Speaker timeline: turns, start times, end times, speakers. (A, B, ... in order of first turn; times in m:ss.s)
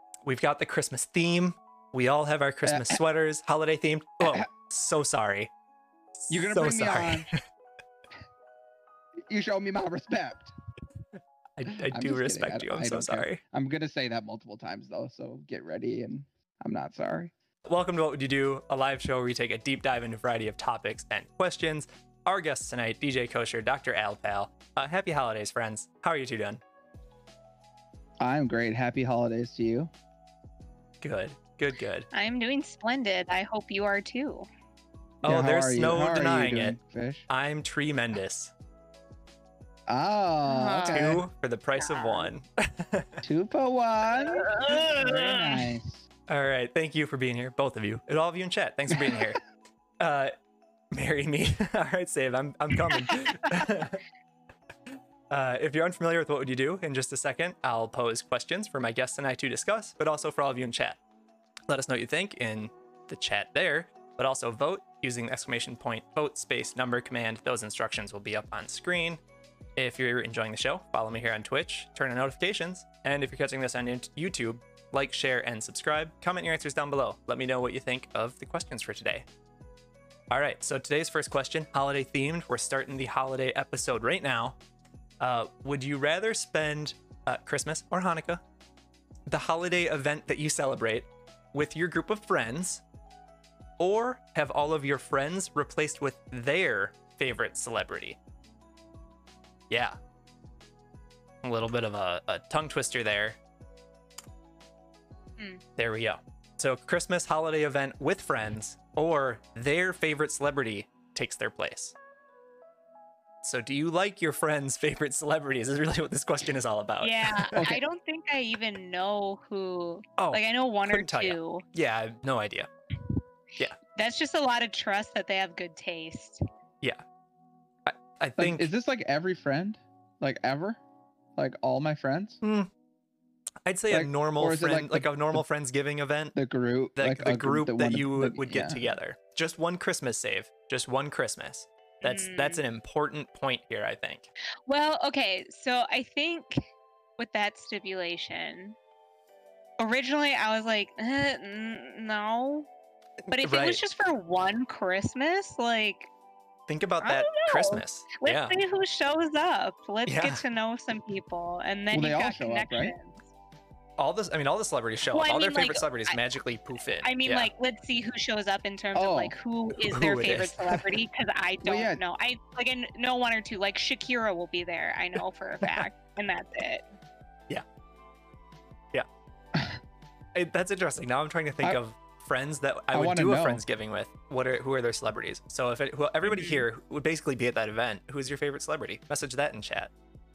0:00.2-0:05.5 A
0:02.6-0:03.0 B
0:04.2-0:04.5 B
0:06.2-0:07.4 A
0:06.3-0:07.3 B
0:09.3-0:10.5 B
0:11.6-0:13.4 A
0:11.9-0:17.3 B
0:17.7-0:26.6 A
0:28.2-0:29.9 B
0:31.0-0:32.1 A
0:32.1-0:34.5 C
0:35.2-0:37.3 B
0:35.2-0:36.8 A
0:37.3-0:38.5 A
0:39.9-0:41.2 B
0:40.5-0:41.2 C
0:40.9-0:43.2 A
0:41.8-0:42.3 C
0:43.2-0:46.1 B
0:44.1-0:45.8 C
0:46.3-0:49.4 A
0:48.9-0:49.3 B
0:50.0-0:50.4 A
0:50.9-0:54.0 A
0:55.3-1:01.0 A
1:01.7-1:09.2 A
1:09.8-1:19.2 A
1:20.3-1:24.6 A
1:25.2-1:28.4 A
1:29.3-1:32.8 A
1:33.8-1:38.2 A
1:39.7-1:40.0 A
1:41.4-1:43.4 A
1:45.8-1:52.0 A
1:53.4-1:57.6 A
1:57.0-2:01.6 C
1:57.6-1:57.8 B
2:00.2-2:02.7 A
2:04.0-2:06.4 C
2:07.9-2:08.7 A
2:08.4-2:10.8 B
2:11.4-2:12.4 B
2:12.4-2:12.7 A
2:13.6-2:16.4 A
2:13.9-2:15.4 B
2:16.4-2:18.8 B
2:17.0-2:24.3 A
2:22.0-2:22.6 C
2:24.7-2:26.6 C
2:27.2-2:28.8 C
2:29.8-2:32.7 C
2:33.2-2:33.8 A
2:33.3-2:36.1 C
2:36.7-2:38.6 A
2:37.0-2:43.3 C
2:40.1-2:40.4 A
2:41.9-2:42.9 B
2:44.0-2:47.5 A
2:45.1-2:46.2 C
2:47.0-2:56.8 C
2:49.0-2:49.4 B
2:49.8-2:51.0 A
2:51.6-2:52.0 B
3:00.4-3:09.9 A
3:02.9-3:03.6 B